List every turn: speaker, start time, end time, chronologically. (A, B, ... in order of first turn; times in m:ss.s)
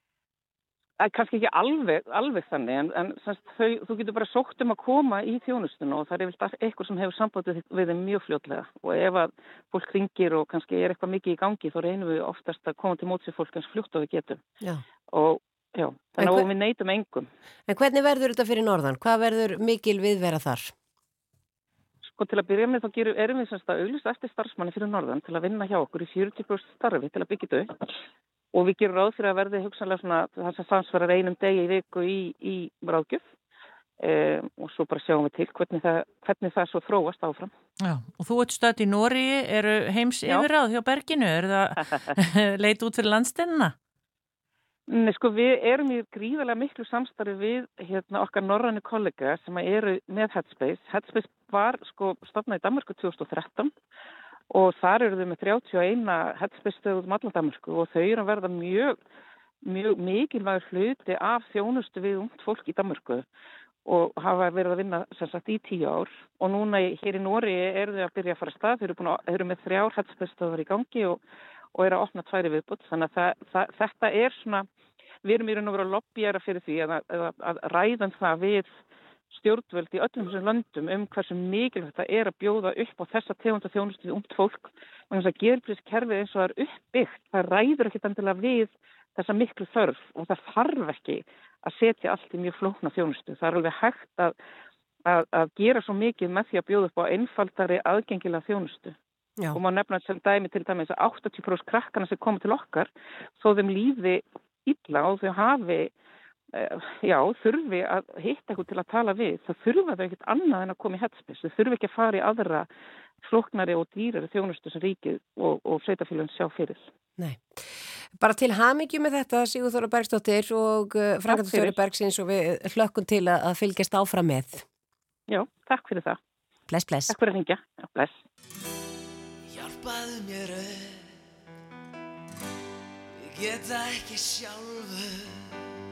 0:01.0-0:14.4 A
0:15.1-0:17.3 A
0:16.2-0:16.4 B
0:17.7-0:20.7 B
0:22.0-0:27.7 A
0:28.5-0:33.2 A
0:34.0-0:37.5 A
0:37.8-0:43.7 C
0:44.9-0:53.7 A
0:54.5-0:59.0 A
0:59.6-1:03.2 A
1:03.8-1:11.2 A
1:11.7-1:14.7 A
1:15.2-1:18.7 A
1:19.3-1:34.4 A
1:35.0-1:38.9 A
1:39.5-1:45.9 A
1:46.5-1:52.7 A
1:53.2-1:56.9 A
1:57.2-1:57.6 B
1:58.2-2:04.6 B
2:01.3-2:01.8 A
2:05.3-2:06.2 A
2:06.7-2:07.1 B
2:07.1-2:08.2 A
2:09.5-2:11.1 D
2:13.2-2:15.5 D